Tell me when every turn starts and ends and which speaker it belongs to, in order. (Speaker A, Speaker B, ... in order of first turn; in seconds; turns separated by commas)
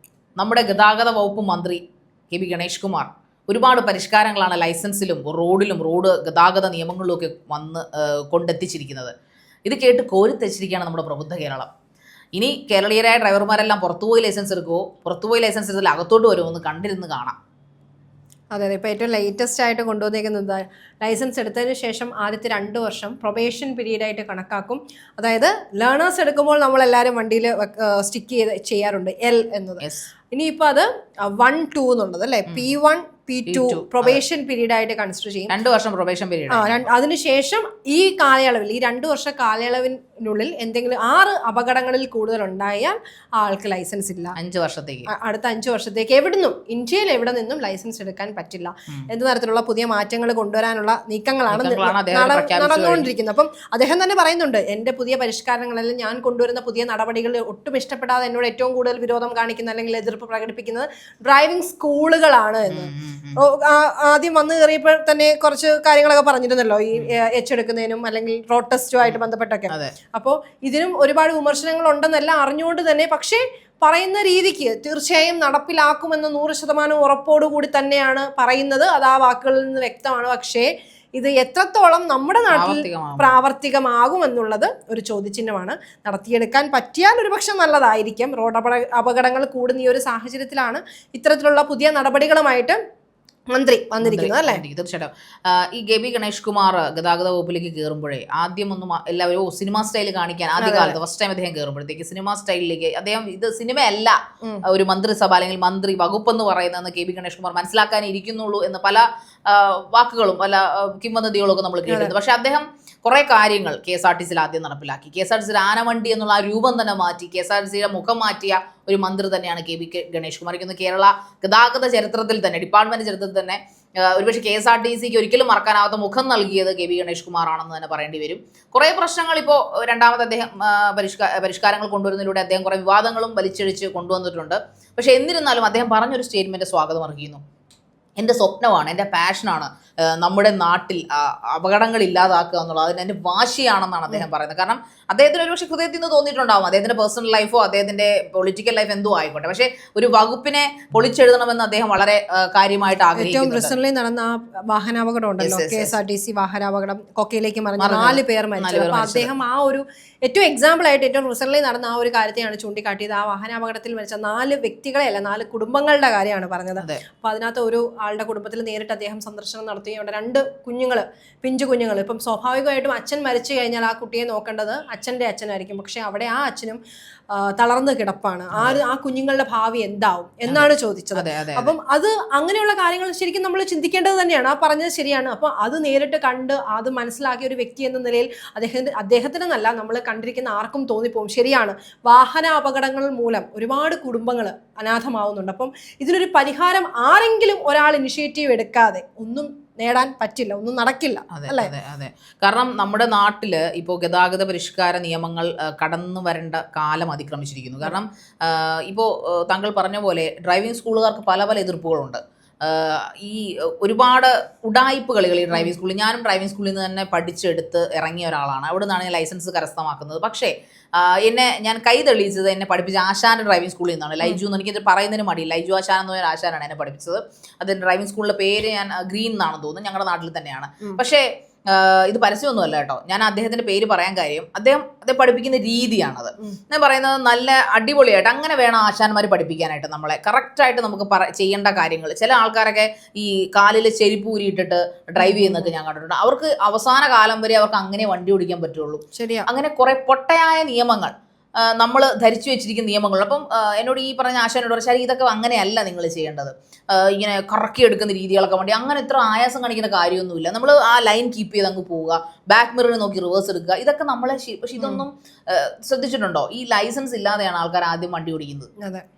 Speaker A: 0.4-9.1, Speaker A: 9.7-11.7, Speaker A: 12.4-17.4, Speaker B: 18.5-35.5, Speaker A: 29.8-30.1, Speaker A: 33.5-34.2, Speaker A: 35.5-36.8, Speaker B: 36.5-44.4, Speaker A: 44.4-45.1, Speaker B: 45.1-92.8, Speaker A: 51.5-53.1, Speaker A: 62.7-63.4, Speaker A: 69.0-69.9, Speaker A: 82.5-83.3, Speaker B: 93.5-94.6, Speaker A: 94.0-137.4, Speaker B: 100.6-101.0, Speaker B: 111.9-112.1, Speaker A: 138.2-153.7, Speaker B: 153.2-176.8, Speaker A: 155.4-155.9, Speaker A: 157.8-159.3, Speaker B: 177.3-201.7, Speaker A: 180.5-181.7, Speaker A: 201.3-268.7, Speaker B: 245.2-245.7, Speaker B: 249.2-249.5, Speaker B: 264.8-265.0